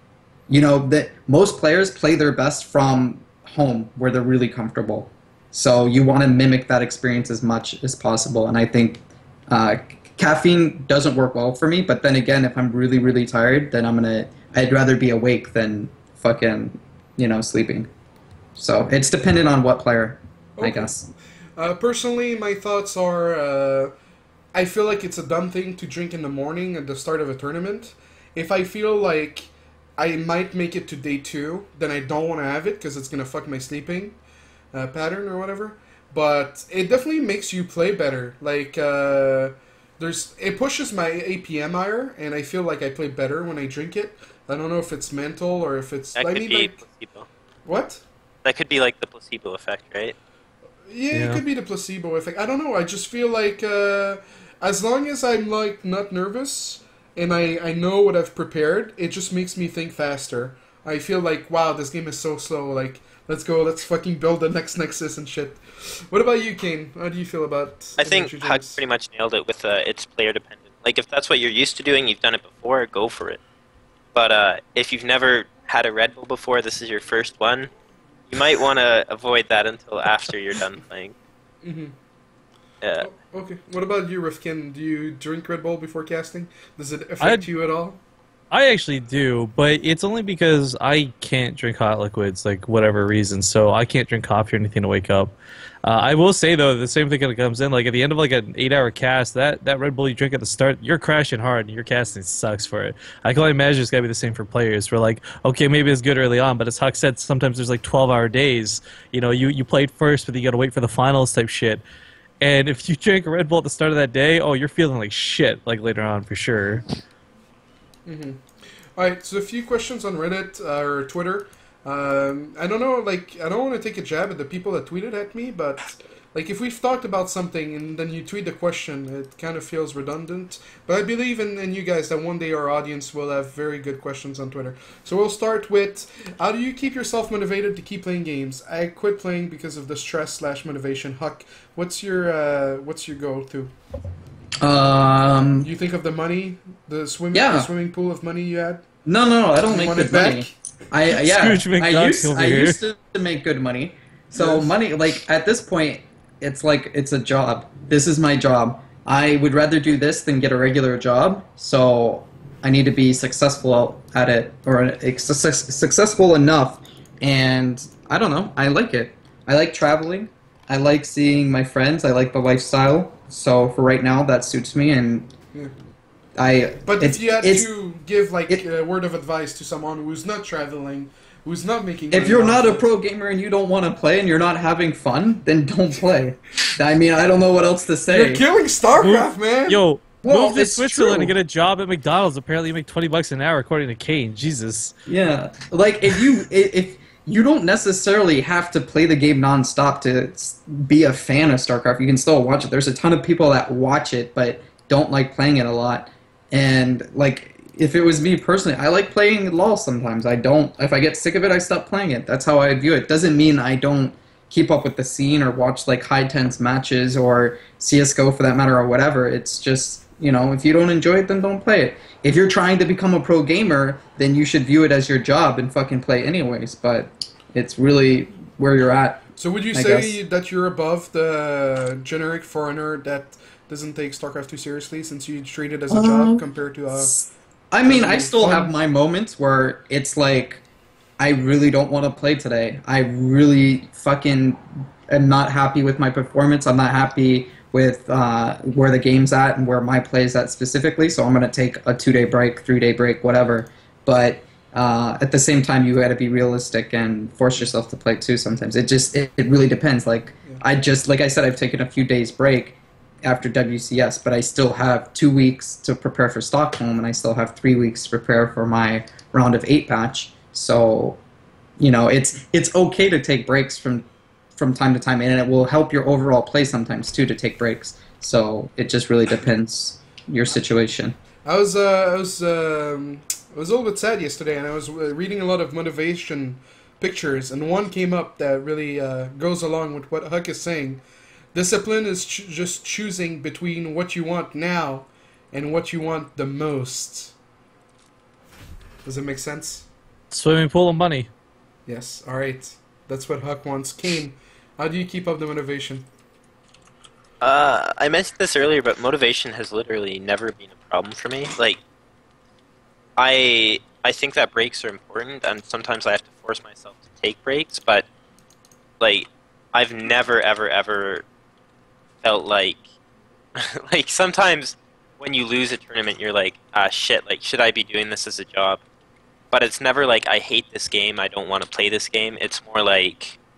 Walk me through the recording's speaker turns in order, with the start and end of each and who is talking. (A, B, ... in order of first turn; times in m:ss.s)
0:00.5-0:17.9 A
0:18.6-0:21.1 A
0:20.6-0:20.9 B
0:21.6-0:23.9 B
0:24.5-0:34.2 B
0:34.7-0:46.8 B
0:46.2-0:47.3 C
0:47.7-0:48.0 B
0:48.4-0:50.2 C
0:50.9-1:08.8 B
0:51.1-0:51.4 D
1:08.0-1:13.4 C
1:14.2-1:17.7 C
1:18.3-1:21.1 C
1:21.6-1:22.0 B
1:22.8-1:23.1 C
1:23.0-1:28.0 B
1:27.2-1:27.5 D
1:28.5-1:51.8 D
1:52.4-1:56.8 D
1:58.1-2:23.7 B
2:24.6-2:25.7 A
2:25.6-2:28.8 B
2:27.3-2:27.7 A
2:29.0-2:55.3 A
2:29.7-2:30.5 B
2:31.1-2:32.8 D
2:34.4-2:34.7 B
2:56.4-2:57.7 A
2:56.8-3:02.9 B
3:02.1-3:08.5 A
3:08.1-3:09.8 B
3:09.0-3:14.9 D
3:10.2-3:11.4 A
3:15.1-3:50.2 A
3:49.4-3:57.2 B
3:55.9-4:00.6 A
3:57.8-3:58.7 B
4:01.2-4:31.2 A
4:31.8-4:41.2 A
4:41.4-4:51.0 B
4:51.5-4:57.3 B
4:59.0-4:59.9 B
5:00.3-5:01.3 D
5:01.9-5:06.1 B
5:07.4-5:11.8 C
5:13.2-5:18.1 C
5:19.0-5:21.2 C
5:22.2-5:22.8 C
5:23.6-5:28.8 C
5:29.5-5:33.4 C